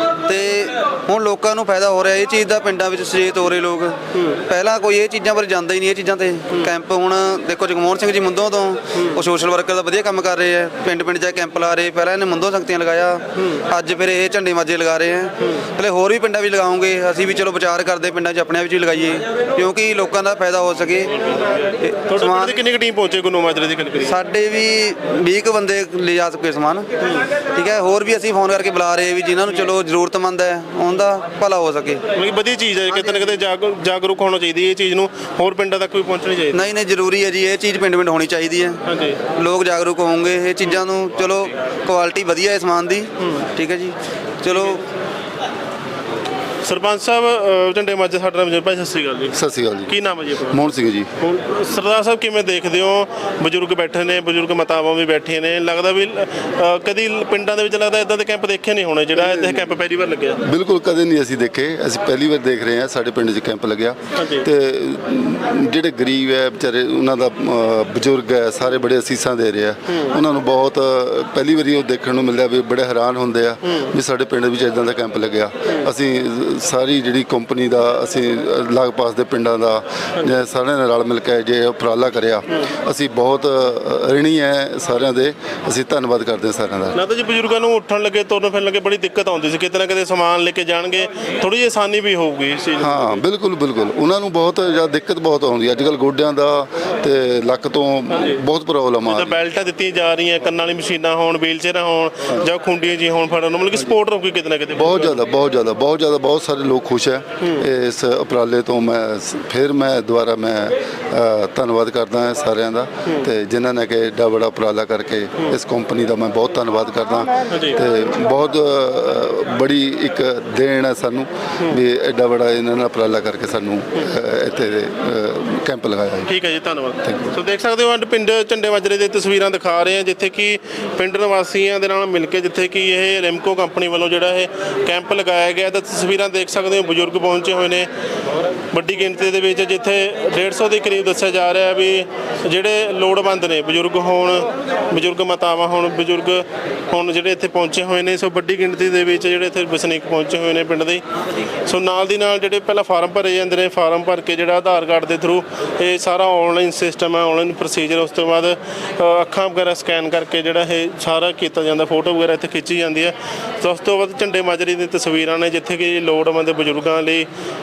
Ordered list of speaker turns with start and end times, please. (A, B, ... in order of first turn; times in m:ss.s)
0:00.2-0:21.1 A
0:04.1-0:04.4 B
0:08.9-0:09.2 B
0:21.6-0:22.6 A
0:22.1-0:24.2 B
0:24.0-0:26.9 A
0:27.0-0:27.3 B
0:27.5-0:32.0 A
0:32.1-0:36.6 B
0:36.5-0:38.8 A
0:38.8-0:39.2 B
0:39.3-0:44.8 A
0:44.5-0:44.8 B
0:46.6-0:49.3 B
0:49.3-0:49.9 C
0:49.9-0:50.6 B
0:50.5-0:51.1 C
0:51.2-1:00.4 B
0:59.2-0:59.8 C
1:00.4-1:27.0 C
1:04.2-1:04.5 B
1:09.9-1:10.2 B
1:26.9-1:33.2 B
1:32.8-1:39.4 C
1:38.1-1:38.4 B
1:39.1-1:45.2 B
1:44.8-2:06.3 C
1:47.4-1:47.6 B
1:57.5-1:57.8 B
2:06.2-2:17.9 B
2:07.0-2:07.3 C
2:18.7-2:31.0 B
2:31.6-2:47.3 B